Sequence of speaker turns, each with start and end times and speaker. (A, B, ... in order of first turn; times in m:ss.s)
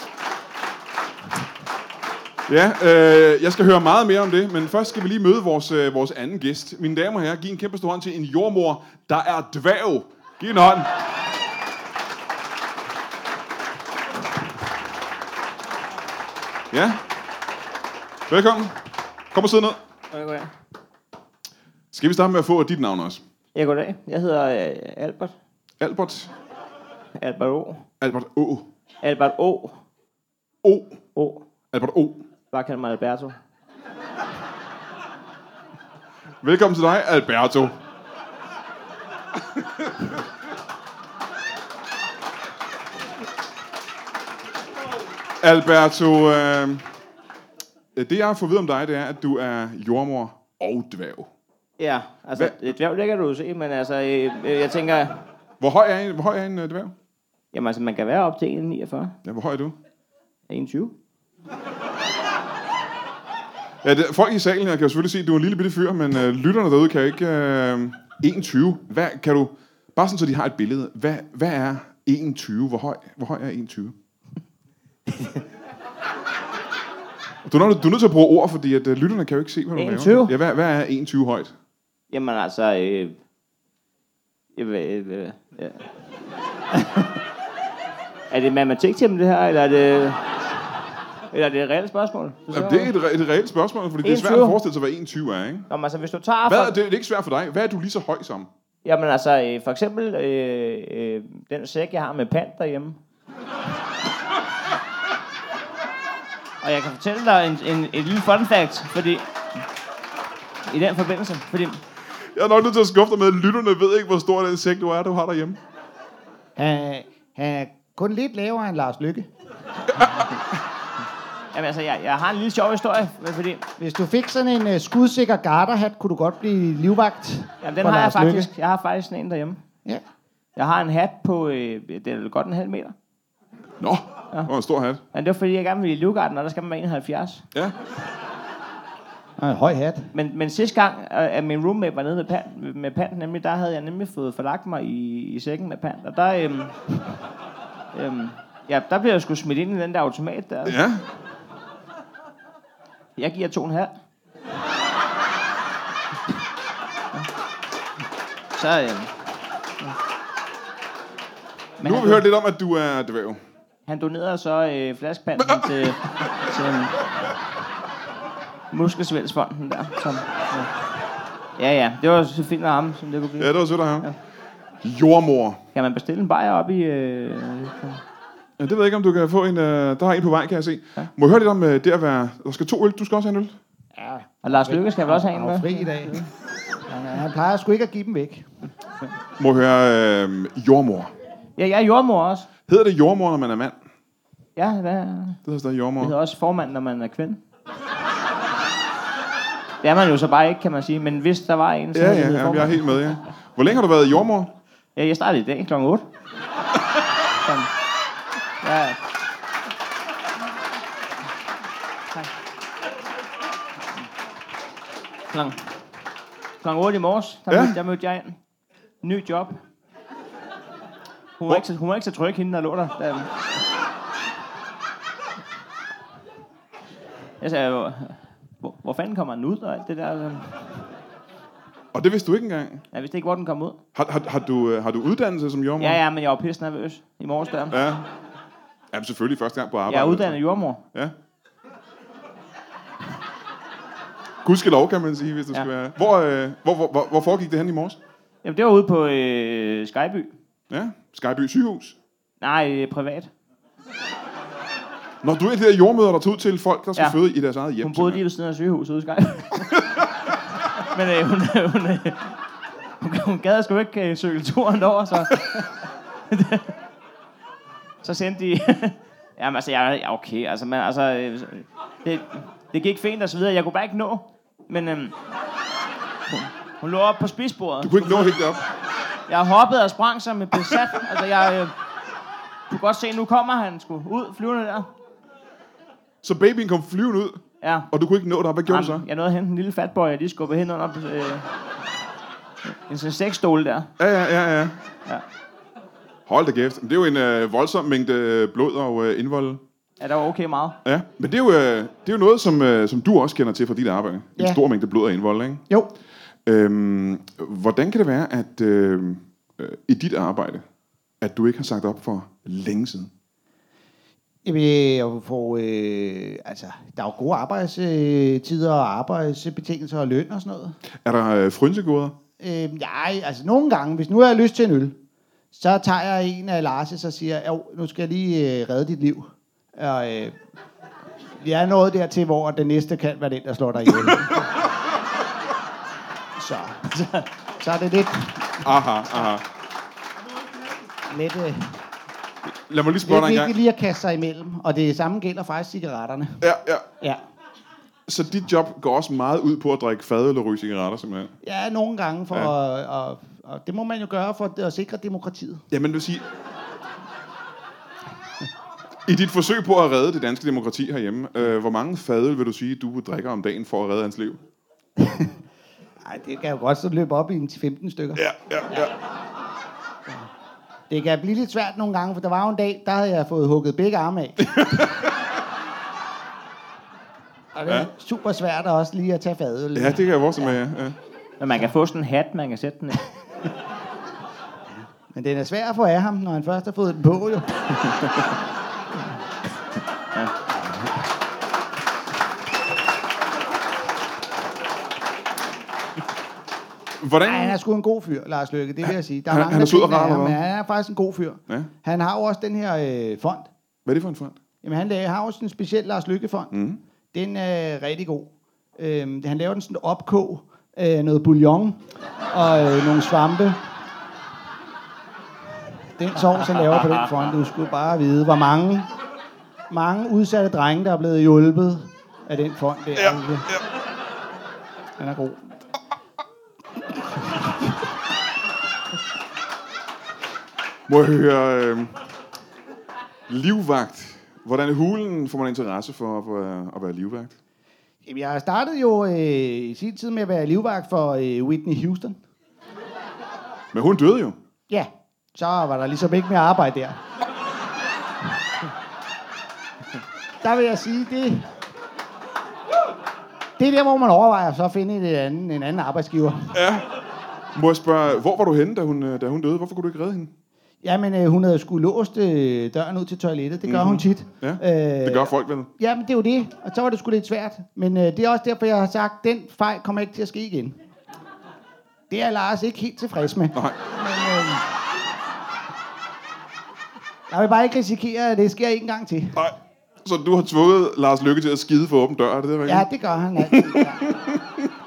0:02.5-0:10.9 A
0:16.7-0:17.0 A
0:18.3-0:19.8 A
0:20.1-0:20.5 B
0:21.9-0:23.2 A
0:23.6-0:25.3 B
0:25.8-0:26.3 A
0:27.2-0:27.8 B
0:28.0-0:28.7 A
0:29.0-0:29.8 B
0:30.6-0:31.0 A
0:31.1-0:31.4 B
0:31.7-0:32.2 A
0:32.5-0:33.4 B
0:36.4-0:37.8 A
0:45.4-0:46.9 A
0:48.0-0:51.3 A
0:51.8-0:55.2 B
0:52.4-0:52.7 A
0:55.6-0:56.9 A
0:57.5-0:59.1 B
0:59.2-0:59.8 A
1:00.5-1:00.9 B
1:03.8-1:13.9 A
1:15.1-1:15.4 B
1:17.5-1:21.5 A
1:19.8-1:20.3 B
1:22.1-1:23.2 B
1:24.6-1:25.9 B
1:28.3-1:30.2 B
1:31.3-1:32.9 B
1:32.5-1:35.7 A
1:34.0-1:34.6 B
1:35.7-1:36.8 B
1:36.5-1:38.5 A
1:38.8-1:43.0 B
1:46.6-1:49.2 B
1:50.7-1:51.8 B
1:52.4-1:55.6 A
1:56.6-1:59.3 C
2:00.0-2:00.3 A
2:01.5-2:03.6 B
2:03.8-2:08.5 C
2:07.6-2:09.6 B
2:10.6-2:12.9 B
2:13.8-2:15.0 A
2:15.1-2:17.4 B
2:19.4-2:20.1 C
2:20.1-2:26.8 B
2:27.9-2:30.8 B
2:30.6-2:31.0 A
2:33.2-2:33.9 B
2:38.6-2:39.1 B
2:41.8-2:42.2 B
2:41.8-2:43.4 A
2:43.9-2:47.1 B
2:45.4-2:45.7 A
2:48.7-2:50.7 B
2:51.6-2:54.1 B
2:53.4-2:54.1 A
2:54.8-2:55.6 A
2:55.8-2:58.0 B
2:58.6-3:03.6 A
3:04.0-3:06.2 C
3:04.4-3:06.3 B
3:06.9-3:08.5 C
3:09.4-3:11.1 A
3:11.6-3:12.5 B
3:12.7-3:13.8 A
3:14.6-3:15.4 B
3:15.4-3:16.1 A
3:16.0-3:17.4 B
3:19.8-3:23.0 B
3:21.9-3:24.5 A
3:25.0-3:26.1 B
3:27.4-3:27.7 B
3:28.6-3:29.0 B
3:35.3-3:35.6 B
3:36.6-3:38.4 B
3:37.5-3:37.8 A
3:39.0-3:39.6 B
3:41.4-3:43.3 B
3:47.4-3:50.6 B
3:51.9-3:52.8 A
3:52.9-3:53.8 B
3:54.0-3:56.0 A
3:55.8-3:57.8 B
3:57.7-3:58.1 A
3:58.9-4:01.1 A
3:59.9-4:00.8 B
4:04.4-4:08.0 A
4:08.4-4:10.3 B
4:10.7-4:12.0 A
4:12.4-4:13.3 B
4:15.2-4:18.2 A
4:17.8-4:20.1 B
4:20.8-4:22.4 B
4:23.0-4:25.7 B
4:26.3-4:26.7 B
4:28.0-4:35.1 B
4:36.3-4:38.4 B
4:37.8-4:38.7 A
4:39.3-4:41.7 B
4:42.7-4:44.9 B
4:46.2-4:49.0 A
4:47.6-4:47.9 B
4:48.6-4:51.5 B
4:52.7-4:53.9 B
4:54.0-4:54.8 A
4:56.3-4:59.6 A
5:00.0-5:00.8 B
5:00.8-5:05.6 A
5:06.5-5:10.6 A
5:11.2-5:13.1 A
5:14.4-5:20.8 C
5:21.0-5:22.1 A
5:22.4-5:25.0 C
5:25.5-5:30.4 C
5:31.4-5:34.5 C
5:36.4-5:36.9 C
5:36.9-5:37.2 B
5:37.6-5:38.7 C
5:38.6-5:39.4 A
5:41.1-5:41.8 C
5:42.5-5:43.6 A
5:43.0-5:46.4 C
5:46.4-5:46.9 A
5:48.1-5:51.3 A
5:51.4-5:55.6 C
5:55.7-5:56.2 A
5:59.1-6:04.4 A
6:05.0-6:05.4 C
6:06.0-6:08.9 C
6:08.2-6:08.9 A
6:10.9-6:14.6 C
6:14.4-6:15.1 A
6:17.5-6:20.5 C
6:19.7-6:21.0 A
6:21.4-6:23.1 B
6:25.1-6:27.8 C
6:37.0-6:37.6 A
6:37.2-6:43.5 C
6:39.3-6:40.4 A
6:43.9-6:44.4 A
6:44.6-6:46.5 C
6:46.5-6:46.8 A
6:47.1-6:53.6 C
6:56.0-6:58.9 C
6:56.5-6:57.1 B
6:59.7-7:03.5 C
7:03.0-7:03.6 A
7:05.0-7:05.6 C
7:10.9-7:12.0 A
7:13.3-7:17.4 A
7:18.0-7:22.2 C
7:23.7-7:24.4 A
7:24.7-7:27.0 C
7:30.4-7:31.5 C
7:33.6-7:36.6 C
7:36.5-7:36.9 A
7:37.5-7:40.3 A
7:40.8-7:50.8 C
7:43.7-7:45.7 A
7:52.1-7:54.7 C
7:53.5-7:53.8 A
7:57.3-7:59.4 C
7:59.3-8:02.9 A
8:02.6-8:04.0 C
8:03.4-8:04.7 A